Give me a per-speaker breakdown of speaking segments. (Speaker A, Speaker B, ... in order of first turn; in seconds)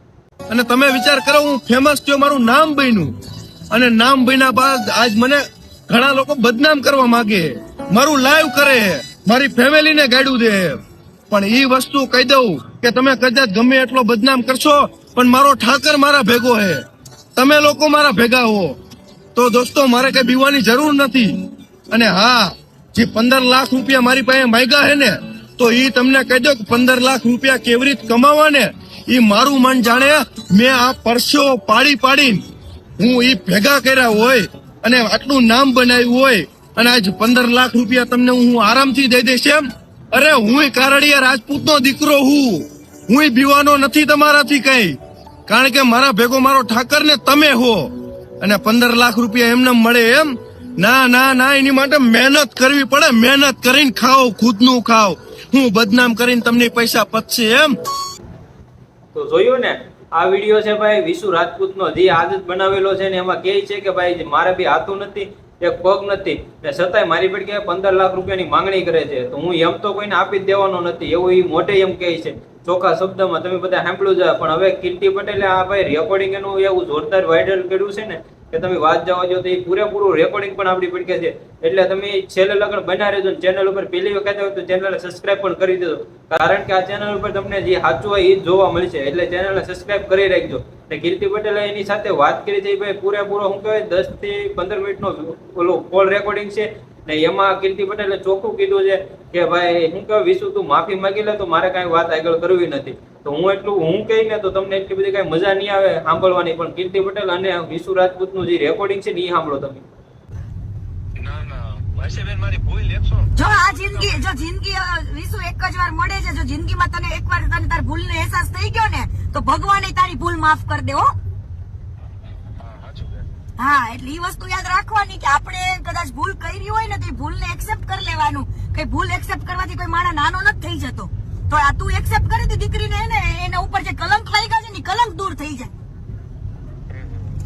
Speaker A: 0.5-3.1, 3.7-10.8, 11.3-16.8, 17.4-18.8, 19.4-21.4, 21.9-32.4, 33.0-45.0, 45.5-47.9, 48.4-57.8
Speaker B: 59.1-109.8
Speaker C: 111.2-113.8, 122.6-123.3, 136.9-137.2
Speaker D: 113.3-121.1, 123.6-135.7